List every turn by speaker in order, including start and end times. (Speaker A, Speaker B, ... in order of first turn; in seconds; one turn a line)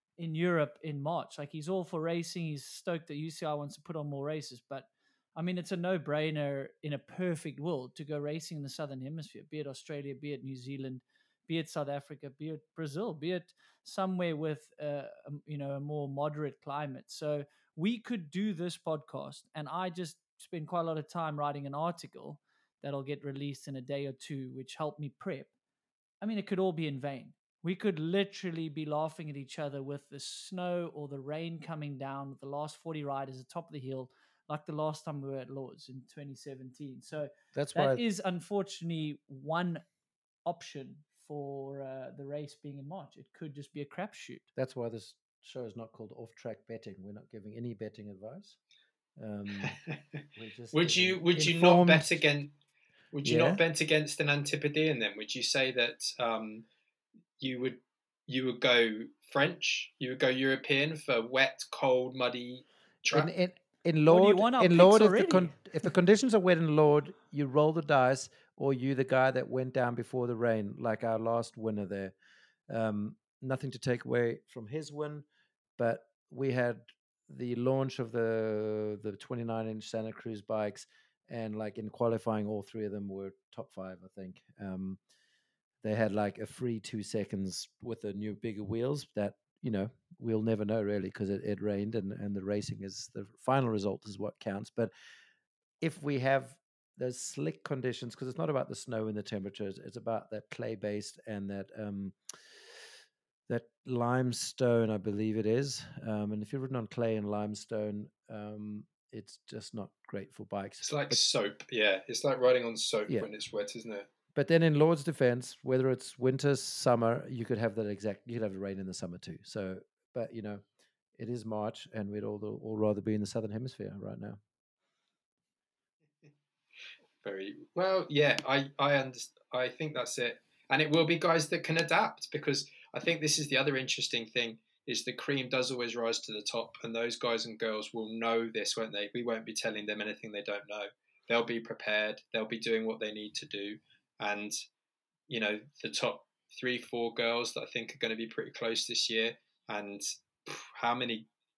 Speaker A: 0.2-25.5
Speaker A: 26.2-39.8
Speaker B: 37.5-38.0
Speaker A: 40.4-44.5
Speaker B: 44.5-48.6
Speaker B: 49.2-49.8
Speaker B: 50.4-52.2
Speaker C: 50.7-52.5
Speaker C: 53.1-56.6
Speaker B: 53.2-53.6
Speaker C: 57.4-63.3
Speaker B: 63.1-72.1
Speaker A: 64.1-65.5
Speaker B: 72.7-75.2
Speaker B: 75.8-85.0
Speaker B: 85.8-94.9
Speaker B: 95.8-102.2
Speaker B: 103.5-111.2
Speaker C: 110.8-114.1
Speaker B: 114.3-120.6
Speaker B: 121.2-124.4
Speaker C: 127.2-144.6
Speaker C: 145.3-151.2